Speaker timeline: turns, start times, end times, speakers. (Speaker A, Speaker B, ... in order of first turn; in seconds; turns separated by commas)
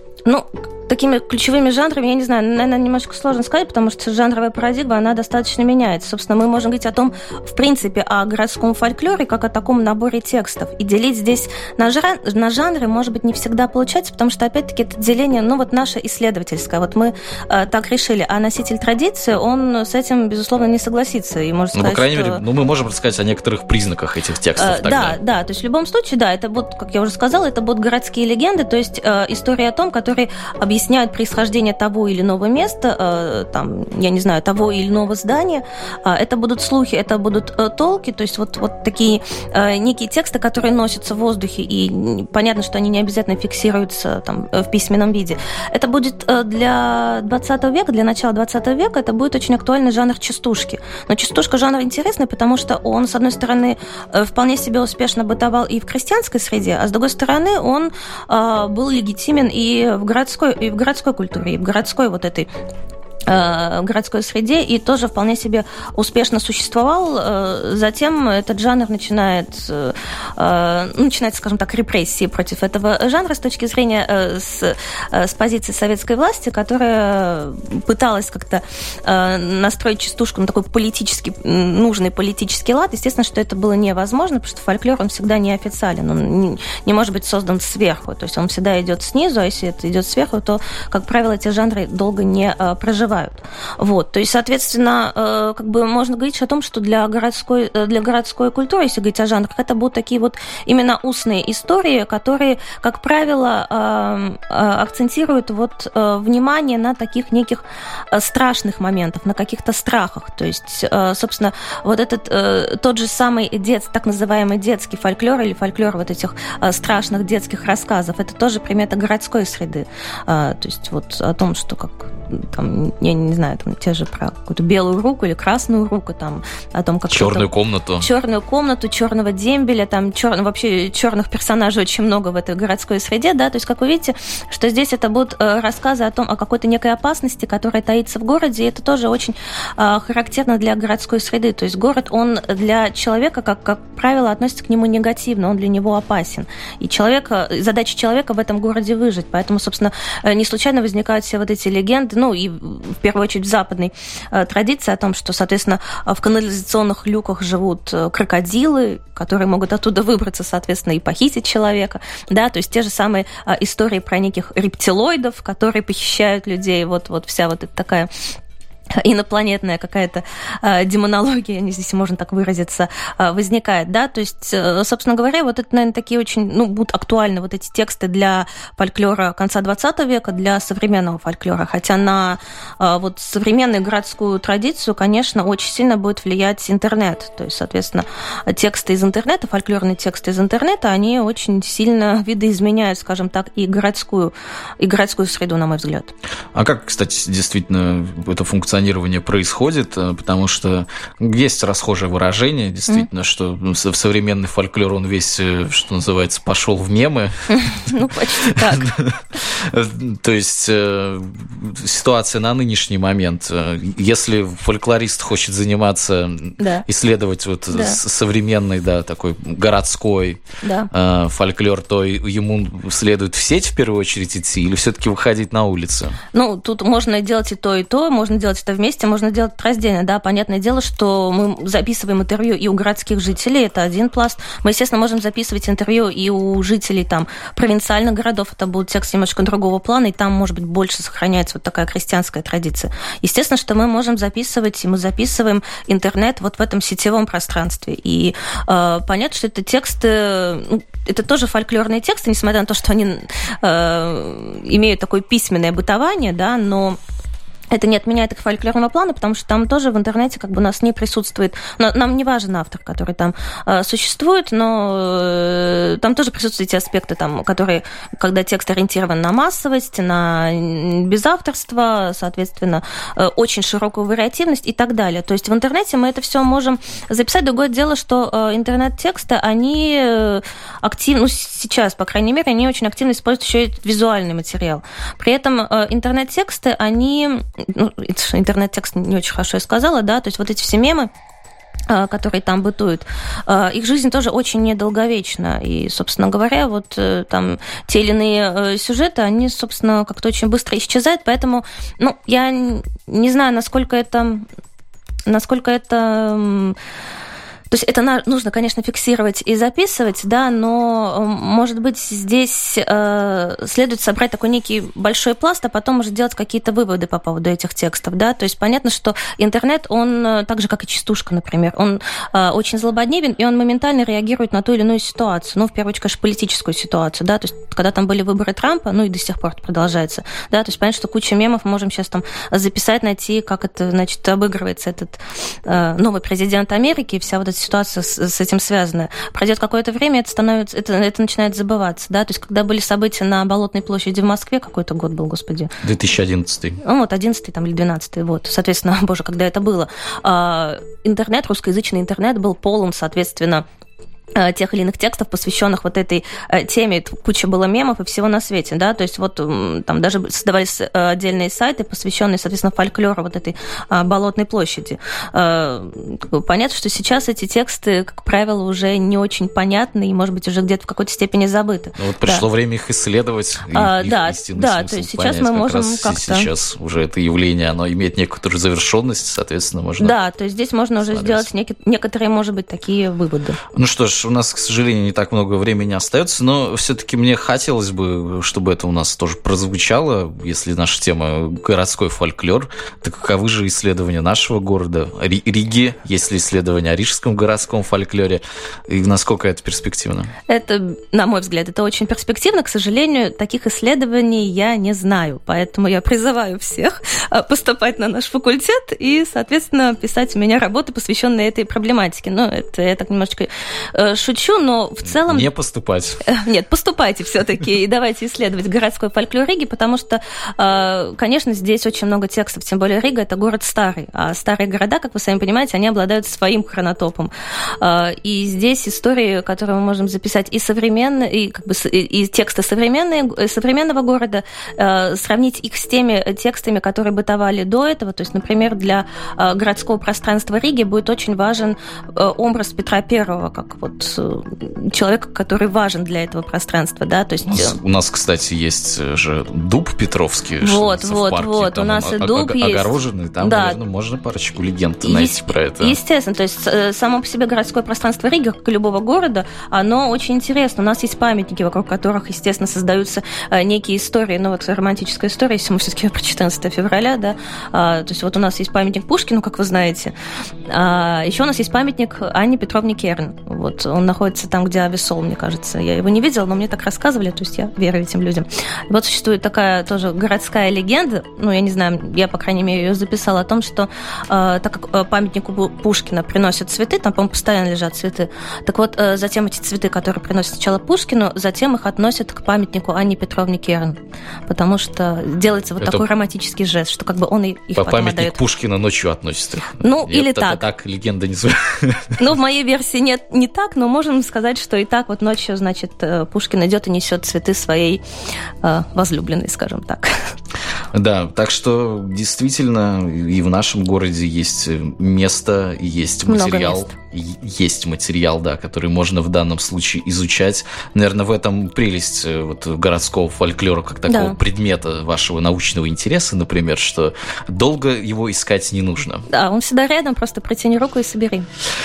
Speaker A: 0.3-22.4, Speaker B: 21.7-25.2, Speaker A: 24.6-62.5, Speaker A: 63.3-127.5, Speaker B: 127.1-128.1, Speaker A: 128.0-168.1, Speaker A: 169.0-196.1, Speaker B: 196.6-207.9, Speaker A: 207.5-208.9, Speaker B: 208.5-220.4, Speaker A: 216.6-216.9, Speaker A: 217.7-218.0, Speaker A: 220.6-220.9, Speaker B: 220.9-226.2, Speaker A: 226.3-257.0, Speaker A: 257.7-291.1, Speaker A: 291.9-304.4, Speaker A: 305.3-306.8, Speaker A: 307.7-345.7, Speaker B: 345.8-346.8, Speaker A: 346.8-353.6, Speaker A: 354.4-372.4, Speaker B: 372.0-380.1, Speaker A: 373.7-376.5, Speaker A: 380.0-383.6, Speaker B: 381.1-381.5, Speaker B: 383.7-400.3, Speaker A: 400.5-415.5, Speaker B: 415.1-416.2, Speaker A: 416.2-447.8, Speaker B: 447.5-456.0, Speaker A: 450.6-453.8, Speaker A: 455.0-470.1, Speaker A: 470.7-498.4, Speaker B: 495.8-496.1, Speaker B: 497.8-502.2, Speaker A: 499.8-500.6, Speaker A: 502.2-508.0, Speaker A: 508.6-510.3, Speaker B: 510.9-529.2, Speaker A: 516.3-516.9, Speaker A: 524.1-524.4, Speaker A: 529.3-531.5